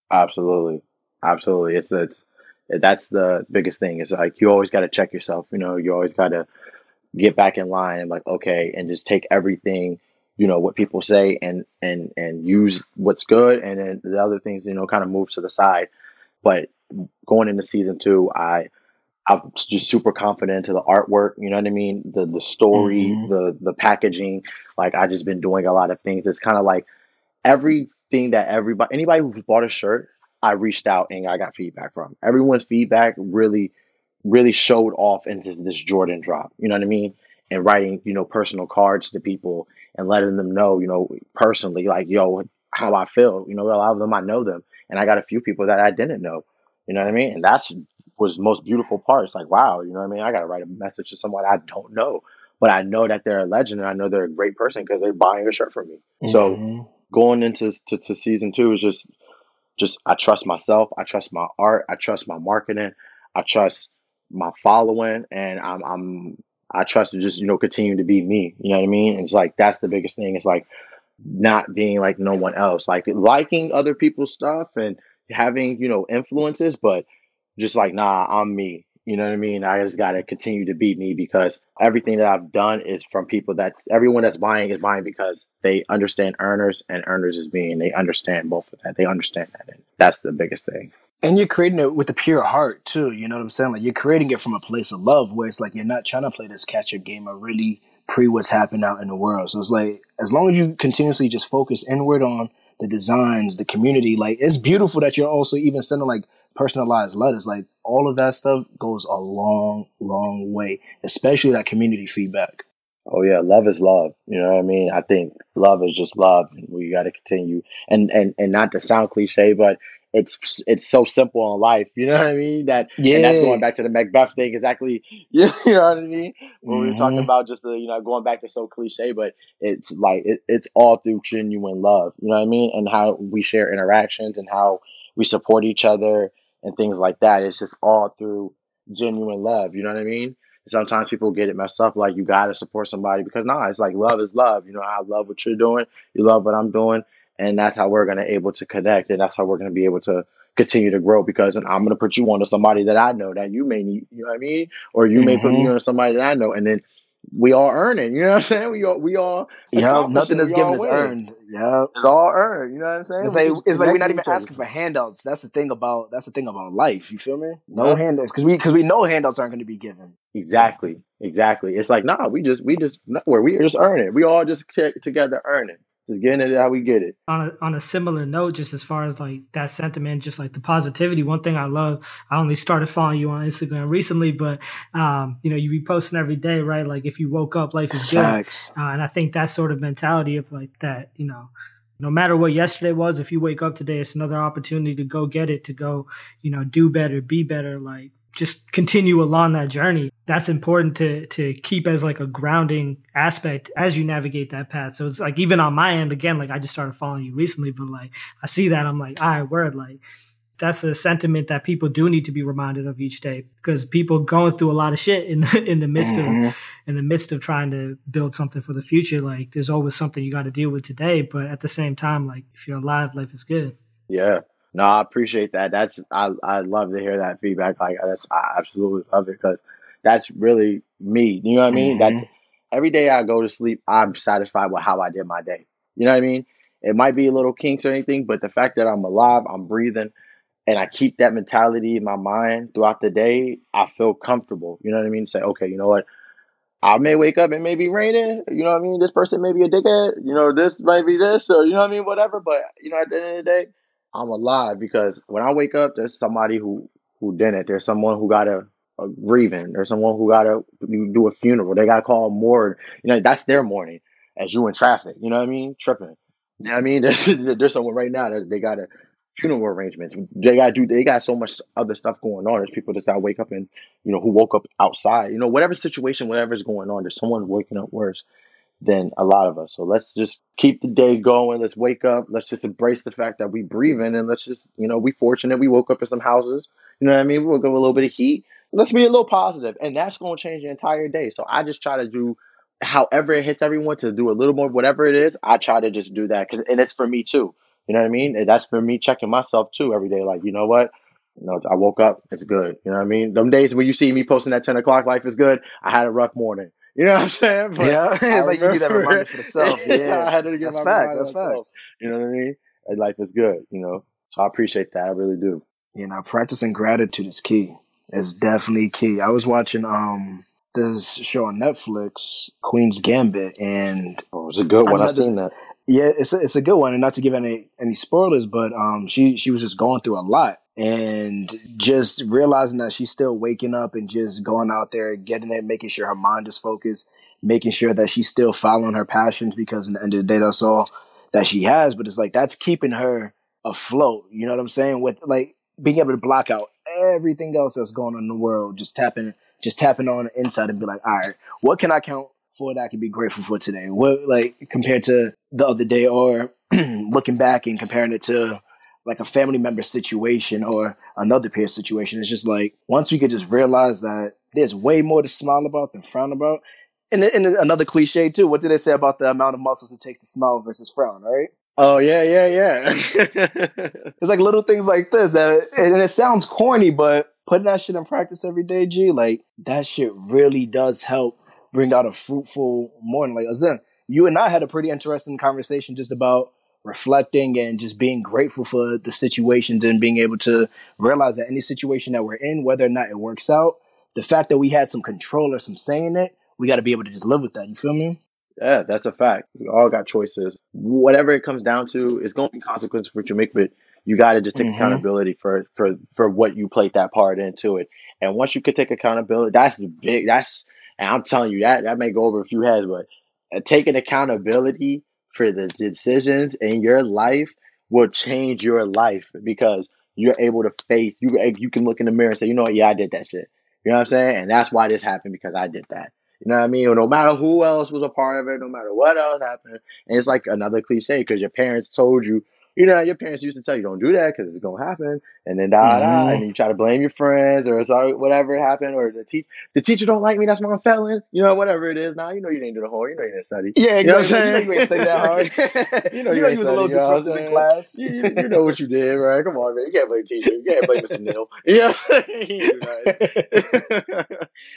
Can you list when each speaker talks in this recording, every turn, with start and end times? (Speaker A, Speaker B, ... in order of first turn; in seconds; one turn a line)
Speaker A: 0.1-6.5
Speaker A: 7.1-15.9
Speaker A: 16.4-16.7
Speaker A: 17.2-18.7
Speaker A: 19.3-26.9
Speaker B: 22.7-23.3
Speaker A: 27.4-33.7
Speaker A: 34.2-56.6
Speaker B: 56.2-56.9
Speaker A: 57.1-59.1
Speaker A: 59.8-70.7
Speaker A: 71.2-77.0
Speaker A: 77.6-90.9
Speaker B: 91.2-112.6
Speaker A: 113.1-161.1
Speaker B: 123.0-123.6
Speaker B: 126.7-127.3
Speaker B: 155.2-155.7
Speaker B: 159.7-161.9
Speaker A: 161.9-164.5
Speaker B: 163.2-170.1
Speaker A: 167.7-168.0
Speaker A: 170.3-177.1
Speaker C: 177.3-210.0
Speaker B: 187.9-188.7
Speaker C: 210.6-223.7
Speaker B: 216.0-216.5
Speaker A: 224.1-240.1
Speaker B: 231.7-232.3
Speaker A: 240.7-246.1
Speaker A: 246.8-278.2
Speaker A: 278.8-315.6
Speaker B: 307.8-311.6
Speaker B: 315.9-324.2
Speaker A: 324.3-325.5
Speaker B: 324.9-325.3
Speaker B: 325.9-371.5
Speaker A: 371.8-374.1
Speaker B: 374.2-398.2
Speaker A: 398.6-445.5
Speaker B: 404.6-405.0
Speaker B: 435.8-436.4
Speaker B: 443.7-448.5
Speaker A: 446.1-454.4
Speaker B: 453.1-453.5